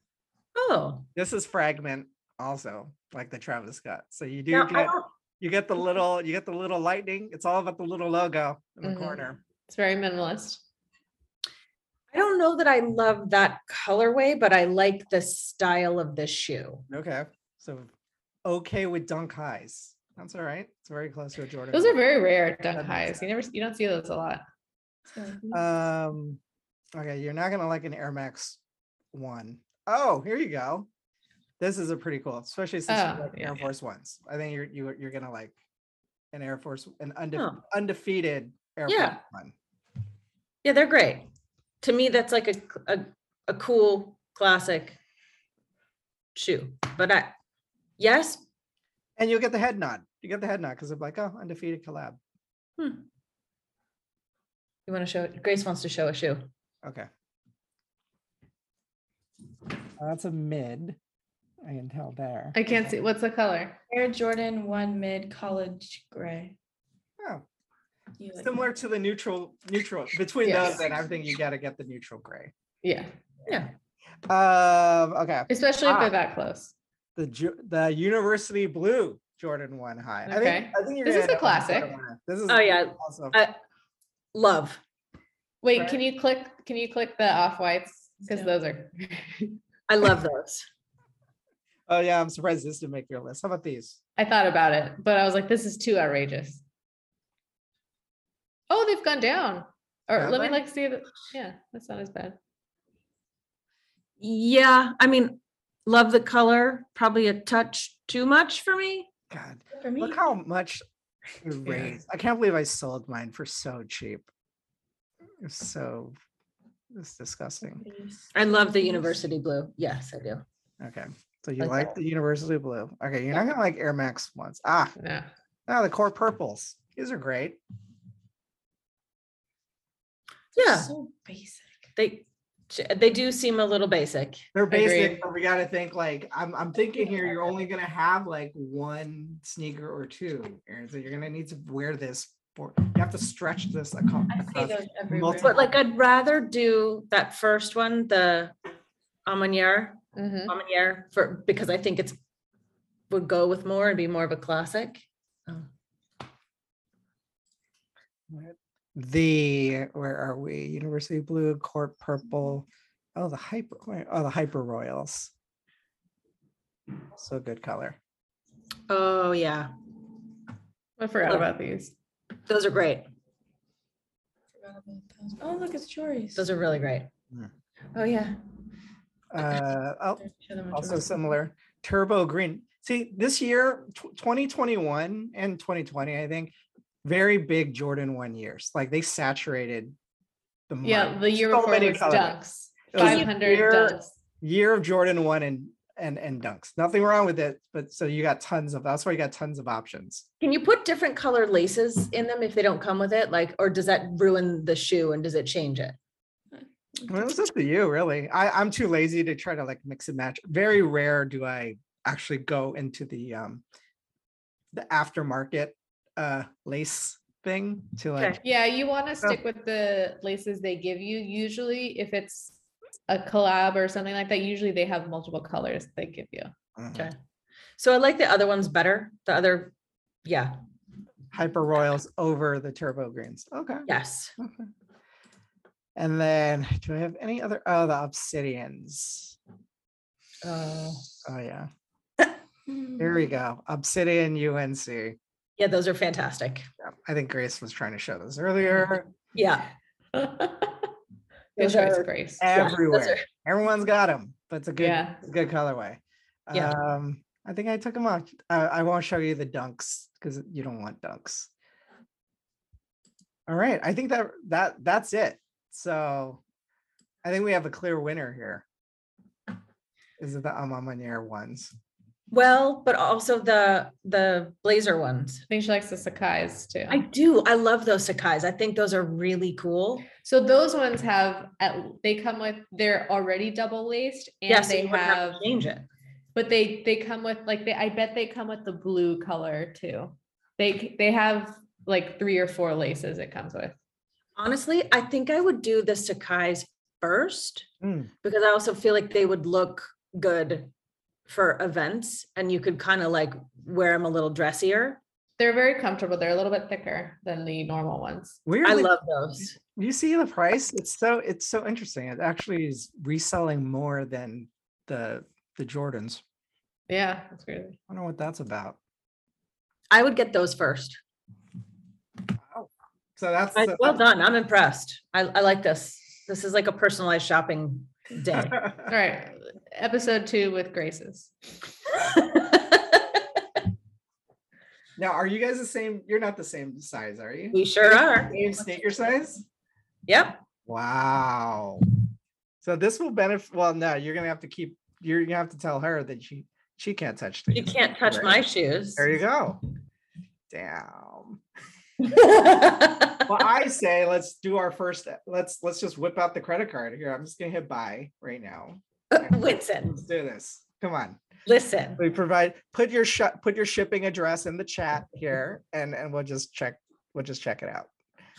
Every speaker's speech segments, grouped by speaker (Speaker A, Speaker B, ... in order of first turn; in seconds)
Speaker A: 0.5-1.1, 4.5-5.1, 12.1-16.9, 37.3-37.6, 38.9-39.2, 40.6-41.3, 41.8-45.0, 46.3-47.3, 48.0-48.4, 52.8-53.0, 54.9-56.5, 73.5-73.7, 82.5-83.5, 84.3-84.8, 89.9-90.7, 104.2-109.1, 118.3-120.4, 121.6-121.9, 130.6-130.9, 131.9-134.4, 145.4-148.5, 149.2-152.2, 153.1-155.7, 168.9-169.7, 172.5-173.0, 176.3-177.1, 177.9-178.4, 192.9-193.3, 200.4-205.9, 227.8-229.7, 230.2-230.6, 233.9-234.3, 240.4-241.1, 245.6-246.7, 249.3-249.7, 251.6-253.2, 272.3-275.4, 276.9-280.1, 284.5-285.9, 294.4-297.7, 298.2-300.7, 301.3-305.0, 308.6-309.6, 319.9-321.0, 323.5-328.7, 332.1-333.0, 337.5-338.3, 340.1-340.4, 347.5-349.1, 352.0-353.3, 359.1-360.0, 361.4-362.0
Speaker B: 1.1-9.4, 16.9-17.9, 18.4-21.9, 22.7-23.2, 25.5-26.4, 26.9-28.6, 29.1-30.9, 31.6-35.5, 36.3-39.5, 49.2-52.2, 56.8-57.1, 60.0-61.0, 61.6-62.9, 68.4-72.5, 74.3-76.1, 77.2-83.4, 85.7-86.0, 91.9-94.0, 100.1-100.6, 109.3-110.8, 111.4-114.3, 115.4-116.2, 116.9-117.8, 120.8-124.9, 125.7-127.6, 134.5-145.6, 158.3-165.3, 167.1-168.0, 179.3-180.2, 180.7-186.5, 187.0-189.9, 190.7-192.3, 192.9-200.2, 207.1-213.6, 214.7-218.4, 226.8-227.1, 231.3-234.7, 235.9-239.4, 241.2-241.7, 243.0-245.2, 246.8-249.1, 252.4-261.5, 263.5-266.4, 267.2-268.6, 270.2-271.7, 297.8-298.1, 308.4-316.2, 317.9-318.8, 322.4-324.0, 328.5-328.9, 335.0-339.4, 340.6-341.9, 342.6-348.4, 348.9-349.6, 350.5-351.4, 353.2-361.2, 362.0-367.9
Speaker C: 8.8-10.6, 21.7-24.4, 32.9-33.6, 62.5-63.8, 70.4-70.8, 72.8-73.1, 75.5-76.7, 80.3-81.9, 85.6-89.6, 94.2-96.6, 98.7-102.4, 125.0-125.3, 134.7-135.2, 150.2-150.5, 171.0-171.9, 190.8-194.1, 218.4-222.5, 223.1-226.5, 250.1-250.9, 251.6-252.4, 254.8-255.2, 275.5-277.0, 280.2-285.4, 286.3-293.8, 305.4-308.4, 316.9-317.8, 328.9-331.3
Speaker D: 25.1-25.6, 63.9-66.5, 68.2-68.7, 88.3-88.5, 109.7-110.2, 117.7-119.3, 130.6-131.7, 144.3-145.7, 174.6-176.5, 180.2-181.2, 206.5-207.3